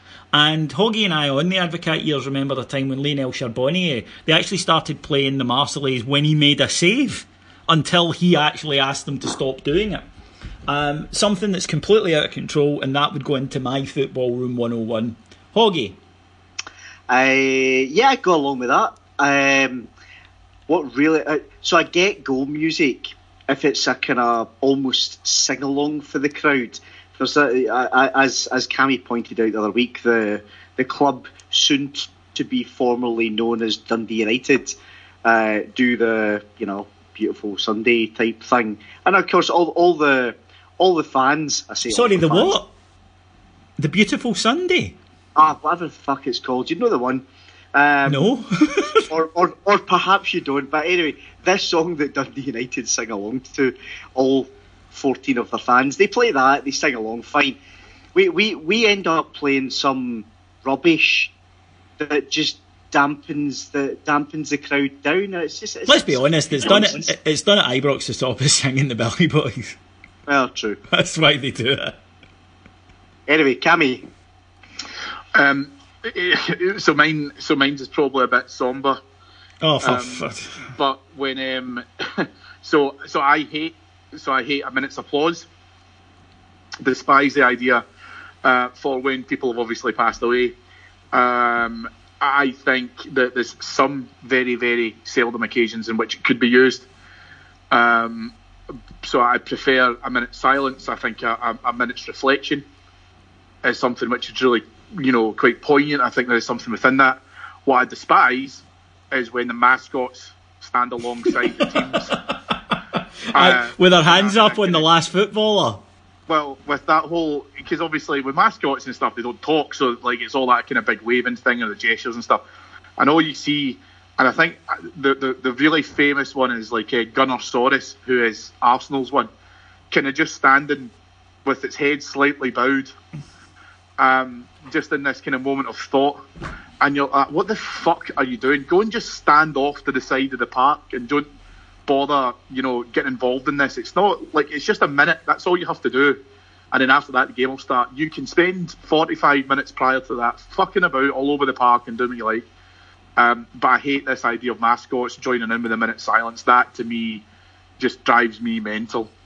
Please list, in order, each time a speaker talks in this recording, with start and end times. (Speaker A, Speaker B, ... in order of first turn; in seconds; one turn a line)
Speaker A: 0.3-10.0
Speaker A: 10.7-16.0
Speaker B: 17.1-19.9
Speaker B: 20.7-42.6
Speaker A: 41.9-42.7
Speaker A: 43.8-44.9
Speaker B: 45.4-48.2
Speaker A: 48.1-49.1
Speaker B: 49.1-57.6
Speaker B: 58.1-61.3
Speaker B: 62.0-67.1
Speaker A: 65.9-69.8
Speaker B: 70.3-70.8
Speaker A: 70.9-72.0
Speaker B: 73.3-74.0
Speaker C: 75.3-79.0
Speaker A: 79.6-80.7
Speaker C: 79.8-85.5
Speaker C: 86.8-87.8
Speaker C: 88.4-90.5
Speaker C: 91.1-96.8
Speaker C: 97.7-98.3
Speaker C: 99.0-102.6
Speaker C: 103.6-112.2
Speaker A: 112.1-112.7
Speaker C: 113.3-114.8
Speaker A: 113.3-115.8
Speaker C: 116.3-122.4
Speaker C: 123.0-129.3
Speaker C: 129.9-130.9
Speaker C: 131.4-132.9
Speaker C: 134.0-136.2
Speaker C: 136.8-141.2
Speaker C: 141.9-146.2
Speaker C: 146.7-152.4
Speaker C: 153.2-157.2
Speaker C: 157.8-159.1